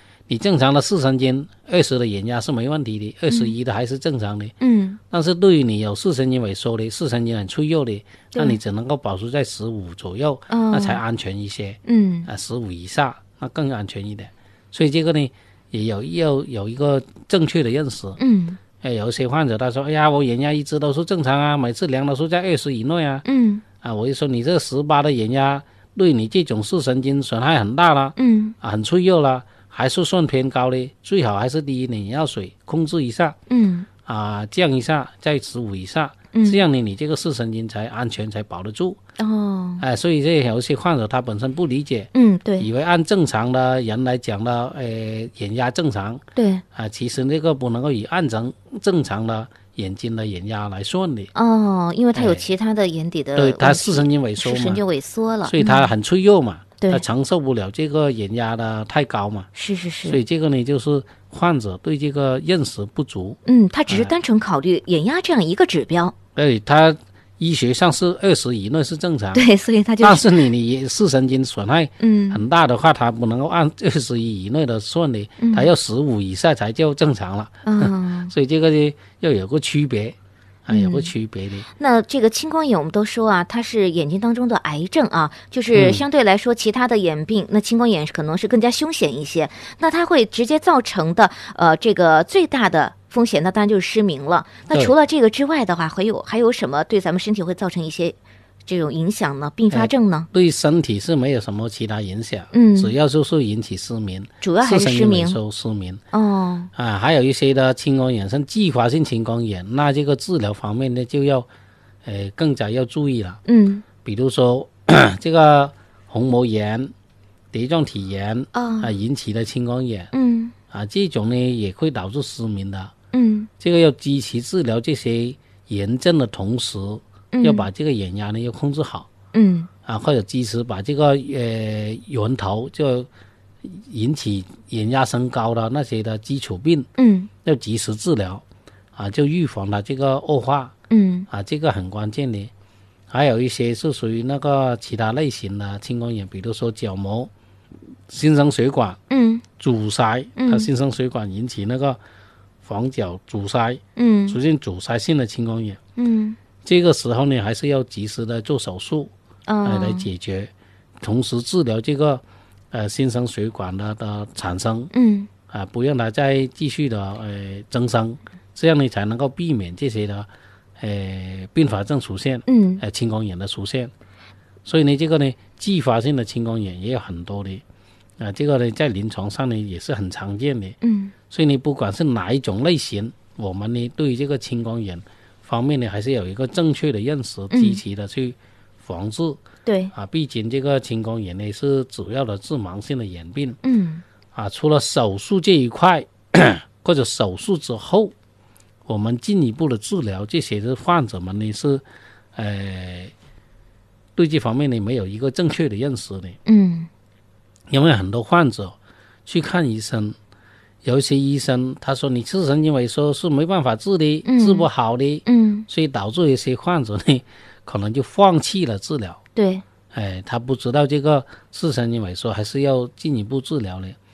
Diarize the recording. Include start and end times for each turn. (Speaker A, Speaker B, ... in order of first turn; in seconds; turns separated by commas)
Speaker A: 0.3-4.5, Speaker B: 4.6-5.0, Speaker A: 5.1-18.2, Speaker B: 8.3-8.6, Speaker B: 10.5-11.0, Speaker B: 11.8-12.3, Speaker B: 18.2-18.6, Speaker A: 18.8-23.2, Speaker B: 23.2-23.6, Speaker A: 23.8-33.4, Speaker B: 28.2-28.5, Speaker B: 33.5-33.9, Speaker A: 34.0-39.0, Speaker B: 36.3-36.6, Speaker B: 39.2-39.8, Speaker A: 39.8-51.3, Speaker B: 42.1-42.7, Speaker B: 46.4-46.6, Speaker B: 51.3-55.9, Speaker A: 52.1-52.5, Speaker A: 53.4-54.8, Speaker A: 55.4-59.5, Speaker B: 59.5-60.2, Speaker A: 60.0-64.1, Speaker B: 63.5-66.1, Speaker A: 66.3-69.4, Speaker B: 69.3-70.5, Speaker A: 70.0-81.7, Speaker B: 72.0-72.4, Speaker B: 75.4-75.7, Speaker B: 77.6-78.3, Speaker B: 80.7-81.1, Speaker B: 81.8-100.3, Speaker A: 85.7-86.0, Speaker A: 99.7-106.0, Speaker B: 102.5-102.9, Speaker B: 104.4-105.4, Speaker B: 106.1-106.7, Speaker A: 106.7-111.5, Speaker A: 112.0-113.4, Speaker B: 113.5-113.8, Speaker A: 114.0-116.9, Speaker A: 117.5-120.1, Speaker B: 118.5-118.9, Speaker B: 120.1-120.5, Speaker A: 120.7-122.9, Speaker B: 123.1-123.5, Speaker A: 123.6-129.1, Speaker B: 127.3-127.7, Speaker B: 129.3-129.7, Speaker A: 129.8-133.1, Speaker A: 133.6-136.9, Speaker B: 137.0-137.3, Speaker A: 137.4-138.4, Speaker A: 138.9-140.7, Speaker B: 140.9-141.3, Speaker A: 141.3-142.5, Speaker A: 143.1-147.3, Speaker A: 148.1-149.0, Speaker B: 149.1-149.4, Speaker A: 149.6-152.0, Speaker B: 150.4-150.7, Speaker A: 152.6-155.8, Speaker B: 153.9-154.4, Speaker B: 156.0-156.4, Speaker A: 156.6-159.1, Speaker B: 159.5-160.1, Speaker A: 159.6-164.9, Speaker B: 164.9-165.3, Speaker A: 165.5-170.3, Speaker A: 170.8-173.9, Speaker B: 172.5-172.8, Speaker A: 174.6-177.6, Speaker A: 178.2-180.8, Speaker B: 180.8-181.1, Speaker A: 181.3-189.4, Speaker B: 187.5-187.8, Speaker B: 189.7-189.9, Speaker A: 189.9-193.6, Speaker B: 193.6-194.0, Speaker A: 194.3-198.1, Speaker A: 198.8-201.8, Speaker A: 202.3-203.1, Speaker A: 204.2-206.4, Speaker B: 206.4-206.9, Speaker A: 207.7-208.7, Speaker A: 209.2-210.2, Speaker A: 210.8-219.2, Speaker B: 214.2-214.7, Speaker B: 215.2-215.7, Speaker B: 219.3-219.6, Speaker A: 219.9-224.0